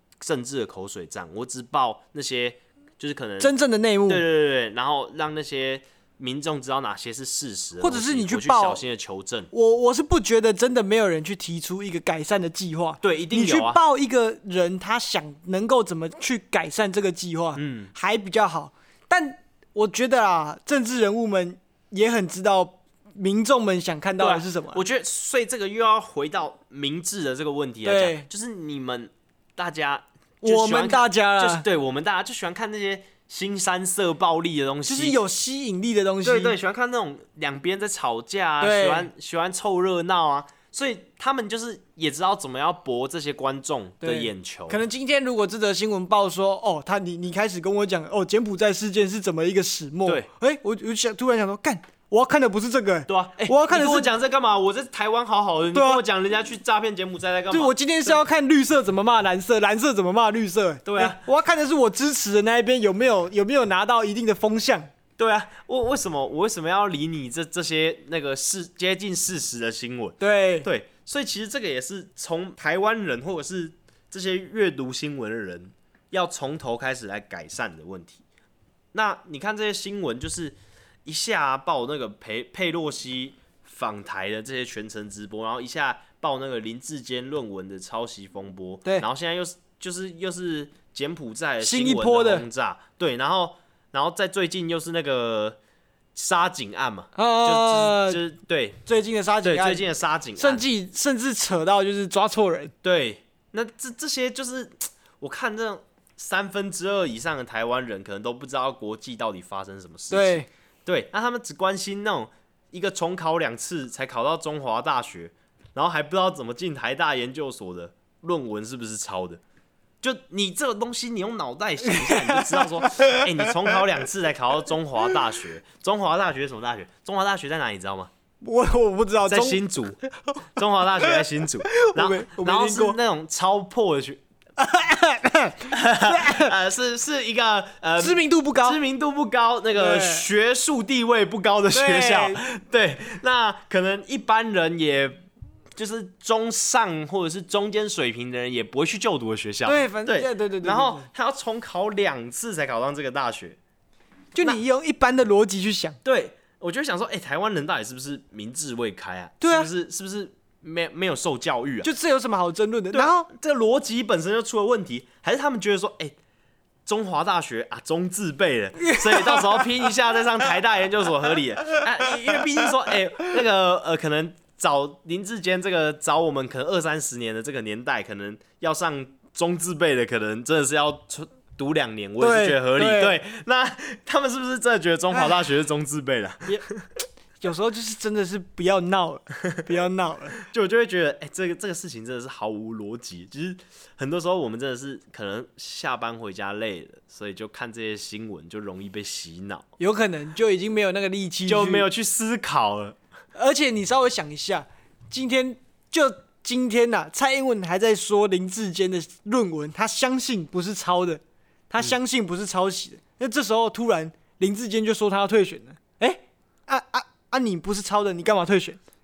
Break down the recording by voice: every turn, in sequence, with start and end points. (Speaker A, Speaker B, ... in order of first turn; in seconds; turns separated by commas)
Speaker A: 0.2-3.5, Speaker B: 3.4-4.2, Speaker A: 4.1-9.5, Speaker B: 7.8-8.8, Speaker B: 9.5-24.8, Speaker A: 13.0-13.8, Speaker A: 17.6-17.9, Speaker A: 24.2-35.2, Speaker B: 27.8-28.3, Speaker B: 30.4-31.6, Speaker B: 34.9-36.6, Speaker A: 36.2-44.8, Speaker B: 38.6-39.1, Speaker B: 44.0-54.1, Speaker A: 53.1-58.2, Speaker B: 55.7-56.0, Speaker B: 57.5-64.9, Speaker A: 60.9-61.2, Speaker A: 65.2-78.2, Speaker B: 70.2-70.7, Speaker A: 78.9-95.6, Speaker B: 91.6-92.5, Speaker A: 96.2-98.8, Speaker B: 97.2-98.2, Speaker B: 98.9-99.8, Speaker A: 99.4-100.6, Speaker B: 100.4-102.7, Speaker A: 102.8-119.4, Speaker B: 110.1-110.5, Speaker A: 120.0-128.1, Speaker B: 121.8-123.5, Speaker B: 128.4-130.1, Speaker A: 129.3-130.0, Speaker A: 130.6-134.2, Speaker B: 131.0-133.0, Speaker B: 134.6-136.5, Speaker A: 135.7-145.2, Speaker B: 138.0-138.8, Speaker B: 139.8-140.3, Speaker B: 141.7-142.6, Speaker A: 145.8-153.6, Speaker B: 149.7-151.1, Speaker B: 154.3-156.0, Speaker A: 156.1-161.9, Speaker B: 159.4-159.7, Speaker B: 161.8-163.3, Speaker A: 162.9-166.2, Speaker A: 166.9-186.9, Speaker B: 168.8-169.7, Speaker B: 182.2-183.2, Speaker B: 187.4-190.4, Speaker A: 190.3-199.7, Speaker B: 199.8-201.9, Speaker A: 201.5-203.0, Speaker B: 203.4-211.2, Speaker B: 211.7-218.8